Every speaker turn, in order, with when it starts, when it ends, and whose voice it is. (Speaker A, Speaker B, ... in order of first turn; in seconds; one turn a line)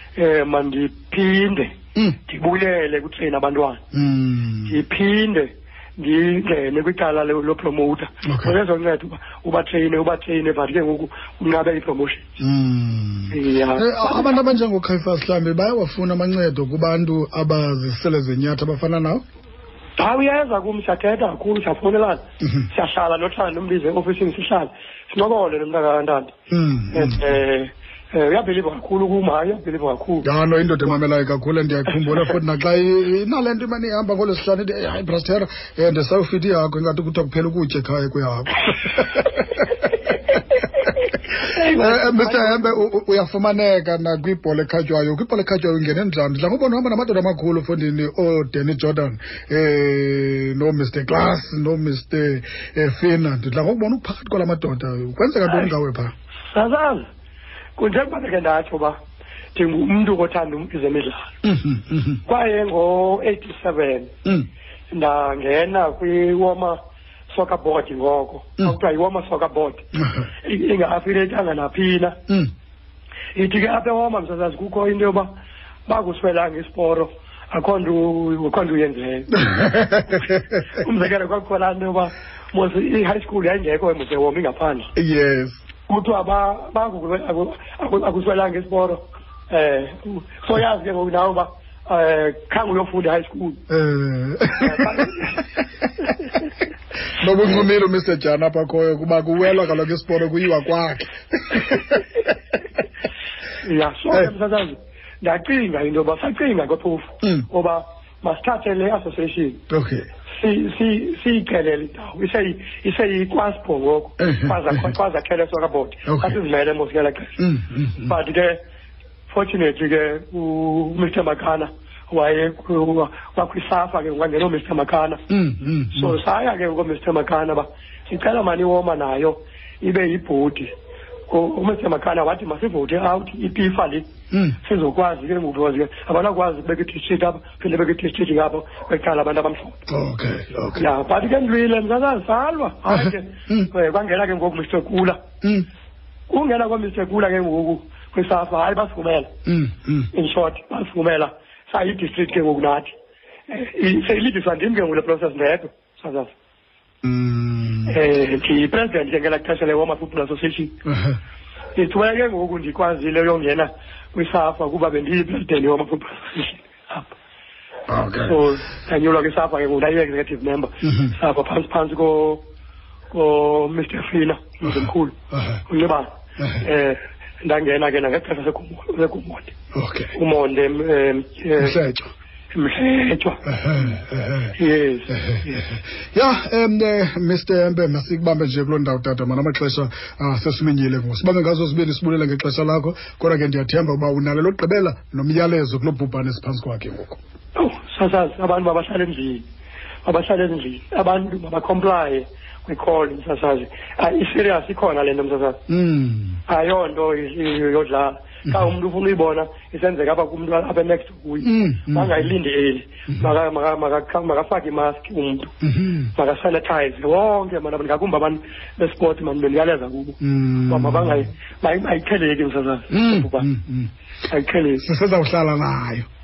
Speaker A: 0.2-3.8
Speaker B: 3.9-4.8
Speaker A: 4.7-12.2
Speaker B: 8.3-8.6
Speaker B: 12.4-19.2
Speaker A: 13.3-14.4
Speaker A: 20.0-26.3
Speaker B: 22.4-22.7
Speaker B: 26.5-27.3
Speaker A: 26.9-30.3
Speaker B: 30.2-39.7
Speaker B: 41.4-56.1
Speaker A: 41.4-42.8
Speaker A: 55.5-55.7
Speaker A: 56.5-57.1
Speaker A: 57.8-59.0
Speaker A: 59.5-61.3
Speaker B: 61.4-62.2
Speaker A: 62.3-64.1
Speaker A: 64.9-66.8
Speaker A: 67.3-69.9
Speaker A: 70.4-72.2
Speaker A: 73.3-75.3
Speaker A: 75.9-79.4
Speaker B: 79.3-80.4
Speaker A: 80.1-84.9
Speaker B: 85.0-85.6
Speaker A: 85.9-93.6
Speaker B: 93.7-96.1
Speaker A: 94.6-95.4
Speaker B: 97.2-102.1
Speaker A: 103.6-109.6
Speaker B: 109.7-110.1
Speaker A: 110.4-117.4
Speaker B: 114.2-114.8
Speaker B: 116.1-116.4
Speaker B: 117.4-118.1
Speaker A: 118.0-118.6
Speaker A: 119.3-125.2
Speaker B: 125.3-126.2
Speaker A: 125.9-130.7
Speaker A: 131.3-134.1
Speaker B: 134.3-134.6
Speaker A: 134.6-139.8
Speaker B: 139.9-140.9
Speaker A: 140.8-145.2
Speaker B: 142.9-143.7
Speaker B: 145.4-145.7
Speaker A: 146.3-149.3
Speaker B: 149.5-150.1
Speaker A: 150.1-152.9
Speaker A: 153.5-156.3
Speaker B: 157.0-158.0
Speaker A: 157.9-160.8
Speaker B: 160.9-161.2
Speaker A: 161.8-167.1
Speaker B: 167.9-168.4
Speaker A: 168.2-172.4
Speaker B: 170.8-171.1
Speaker A: 173.1-175.2
Speaker B: 175.3-175.6
Speaker A: 175.7-179.5
Speaker B: 179.7-180.1
Speaker A: 180.1-181.8
Speaker B: 181.6-182.1
Speaker A: 182.5-183.9
Speaker B: 183.5-184.6
Speaker A: 184.6-185.7
Speaker B: 185.1-197.2
Speaker A: 197.6-199.4
Speaker A: 200.1-205.6
Speaker B: 205.7-206.4
Speaker A: 206.5-215.6
Speaker B: 211.4-212.3
Speaker B: 215.6-216.1
Speaker A: 216.2-223.5
Speaker B: 220.2-221.3
Speaker B: 222.9-223.9
Speaker A: 224.3-224.8
Speaker B: 224.8-226.1